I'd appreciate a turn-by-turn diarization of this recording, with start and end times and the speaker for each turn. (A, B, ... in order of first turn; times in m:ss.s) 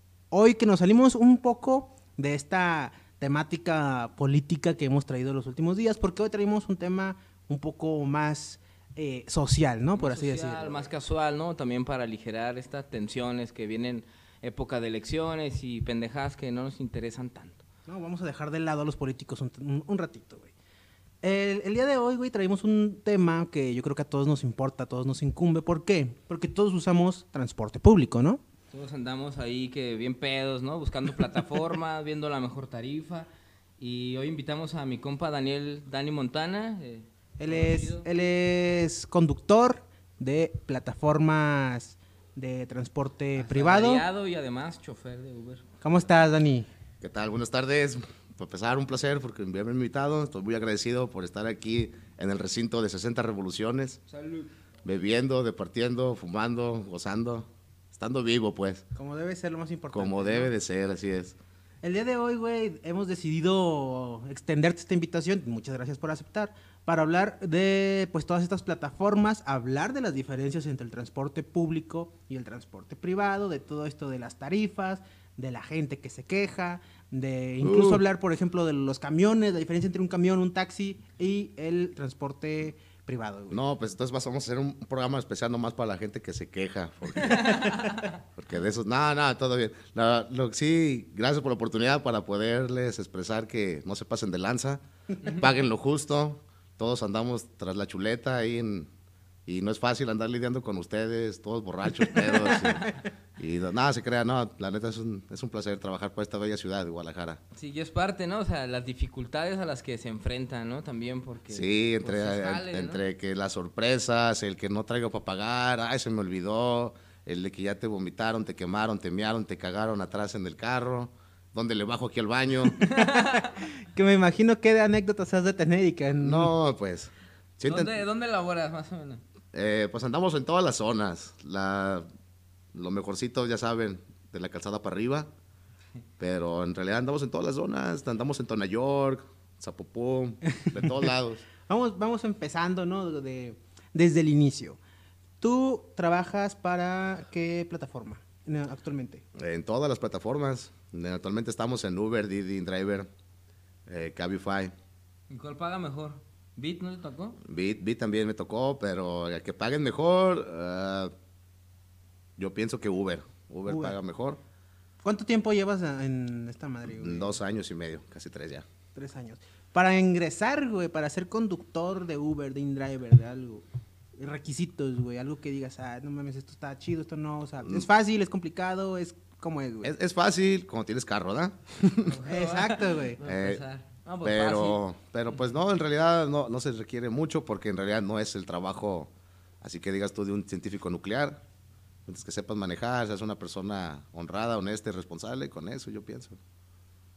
0:00.3-0:10.9 A
0:10.0-0:17.6 B
0:17.9-0:20.5 A
0:21.2-0:28.4 A
0:28.7-0:38.0 B
0:37.4-0:44.0 A
0:43.4-0:45.7 B
0:45.8-0:46.7 A
0:47.0-0:54.0 C
0:54.1-0:54.5 B
0:54.8-0:58.8 C
0:58.9-1:00.5 A
0:59.9-1:01.4 C
1:01.8-1:23.6 A
1:17.6-1:18.0 C
1:23.5-1:27.7 C
1:27.2-1:28.1 B
1:28.3-1:38.9 C
1:39.4-1:47.4 C
1:42.1-1:43.0 B
1:47.5-1:53.0 B
1:51.5-2:02.8 C
2:02.7-2:03.6 B
2:02.8-2:06.5 A
2:06.2-2:07.9 C
2:07.6-2:09.2 B
2:09.5-2:12.1 C
2:12.7-2:15.3 C
2:16.2-2:21.5 C
2:21.6-2:24.8 A
2:25.4-2:29.2 A
2:29.3-2:33.1 C
2:33.9-2:34.7 C
2:35.3-2:37.4 B
2:37.4-2:41.1 C
2:42.4-2:44.4 C
2:43.7-2:44.0 A
2:45.0-2:47.4 A
2:47.0-2:48.6 C
2:48.9-2:53.6 A
2:54.2-2:59.9 A
2:59.8-3:02.2 C
3:02.0-3:04.8 B
3:02.2-3:03.2 A
3:03.2-3:03.6 C
3:04.2-3:11.4 C
3:12.0-3:16.4 C